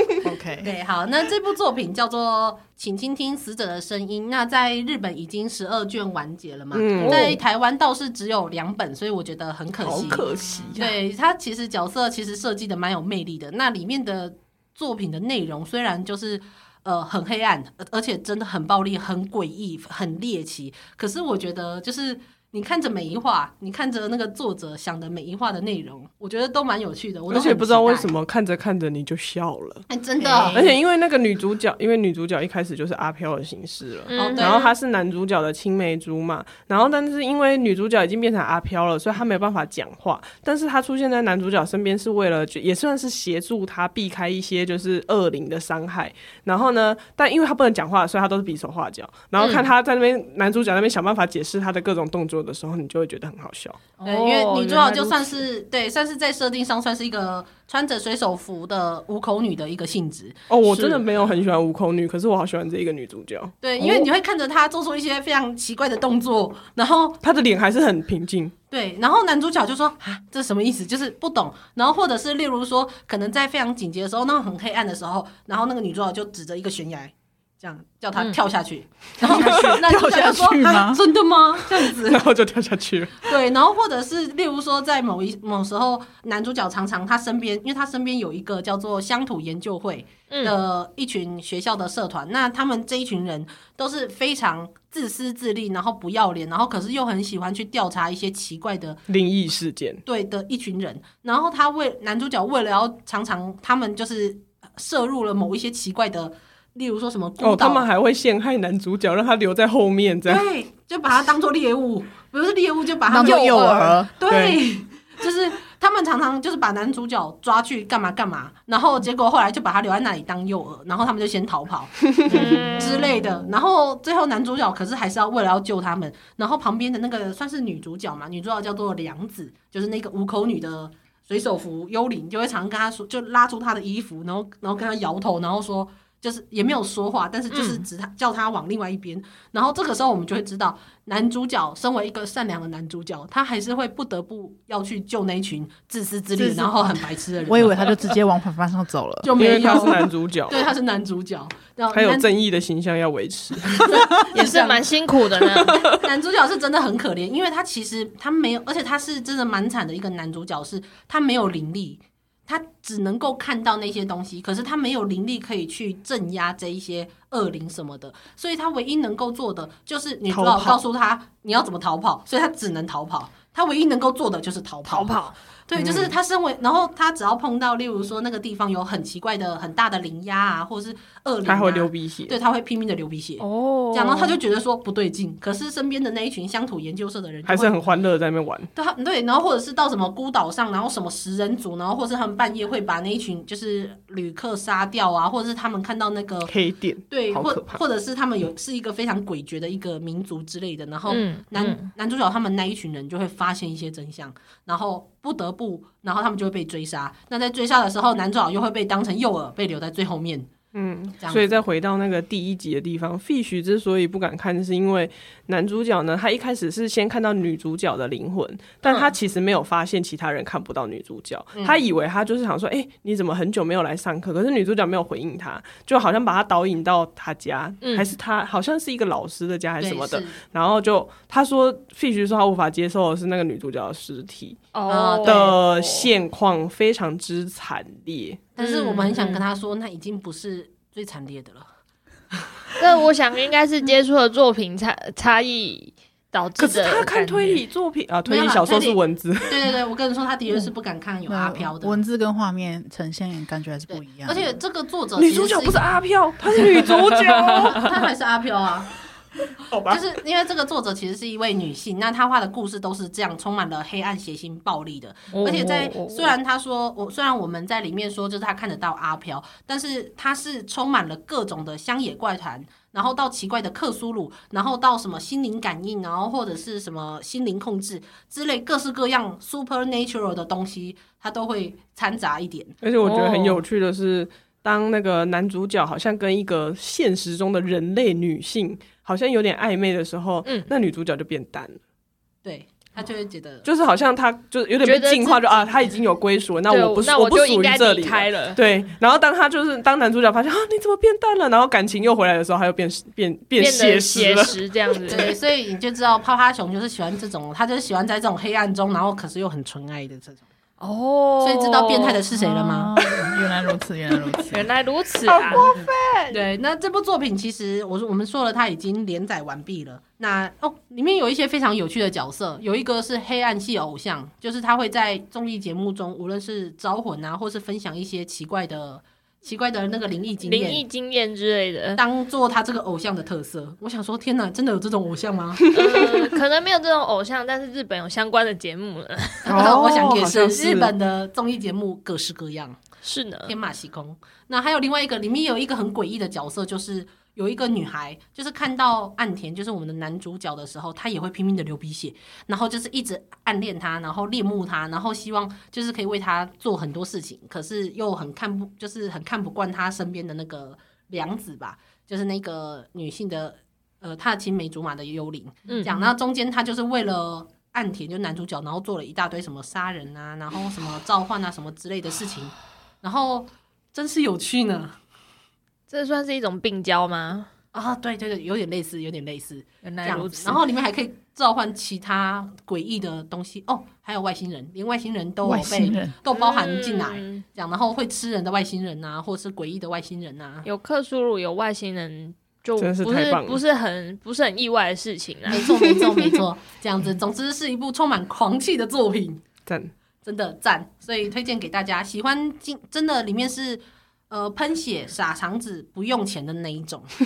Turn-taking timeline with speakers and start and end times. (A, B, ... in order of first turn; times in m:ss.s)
0:00.2-0:00.7 A
0:00.6-0:10.2 B
0:06.7-0:07.4 C
0:07.0-0:07.3 D
0:09.8-0:11.0 C
0:10.0-0:10.7 A
0:10.8-0:28.2 B
0:27.3-0:29.8 C
0:29.9-0:30.7 B
0:30.2-0:30.5 D
0:30.5-0:53.8 C
0:34.1-0:34.6 D
0:34.1-0:34.7 B
0:54.0-0:55.4 D
0:54.0-1:01.0 B
1:00.5-1:04.1 C
1:03.6-1:07.2 B
1:07.2-1:08.5 C
1:08.7-1:22.2 B
1:19.2-1:21.0 A
1:19.3-1:19.8 C
1:21.8-1:23.4 C
1:23.2-1:39.0 B
1:30.3-1:30.5 D
1:39.1-1:40.0 C
1:40.0-1:47.9 B
1:47.4-1:50.4 C
1:50.3-2:27.9 B
1:53.1-1:54.2 A
1:53.2-1:53.5 D
1:54.3-1:54.6 C
2:02.3-2:03.1 D
2:17.5-2:17.8 D
2:26.3-2:29.6 A
2:29.2-2:32.2 B
2:29.3-2:30.7 C
2:31.9-2:34.0 C
2:33.8-2:34.8 B
2:34.3-2:35.8 D
2:35.6-2:35.9 C
2:35.7-2:55.1 B
2:50.3-2:50.8 C
2:54.9-2:55.4 D
2:55.7-3:07.9 B
2:55.7-2:56.1 C
3:01.4-3:02.4 C
3:03.4-3:04.4 D
3:07.4-3:08.7 C
3:08.7-3:16.5 B
3:16.5-3:17.8 C
3:17.1-3:30.5 B
3:21.1-3:21.9 D
3:30.7-3:54.6 C
3:31.2-3:31.5 B
3:38.8-3:39.1 D
3:47.8-3:48.1 D
3:49.8-3:50.4 B
3:54.7-3:56.1 D
3:54.9-3:55.5 B
3:55.2-3:58.4 C
3:58.6-4:01.7 B
3:58.6-3:59.4 D
4:02.8-4:07.6 D
4:06.6-4:09.7 C
4:08.2-4:12.0 B
4:11.3-4:14.6 A
4:13.9-4:16.0 B
4:15.2-4:17.9 C
4:17.7-4:18.9 B
4:19.7-4:20.0 C
4:19.9-4:42.7 B
4:25.3-4:26.4 D
4:42.8-4:51.8 C
4:43.0-4:43.6 D
4:50.4-4:50.7 D
4:52.4-4:53.6 B
4:53.6-5:05.3 C
4:54.8-4:55.4 D
4:56.7-4:58.6 D
5:03.6-5:05.3 D
5:05.1-5:10.4 B
5:10.8-5:12.2 D
5:11.4-5:12.9 B
5:12.3-5:14.7 A
5:14.5-5:15.8 D
5:15.3-5:15.9 C
5:16.3-5:30.8 B
5:30.4-5:32.0 D
5:32.0-5:35.7 B
5:35.7-5:39.8 D
5:39.4-5:42.8 B
5:39.5-5:40.9 C
5:43.0-5:43.5 D
5:43.4-6:15.0 B
6:05.7-6:06.0 D
6:15.9-6:17.5 D
6:17.7-6:30.7 B
6:19.8-6:20.6 D
6:25.4-6:26.1 A
6:26.3-6:27.4 D
6:30.6-6:36.0 D
6:32.8-6:33.6 C
6:35.5-6:39.4 B
6:39.6-6:39.9 C
6:40.2-6:47.1 B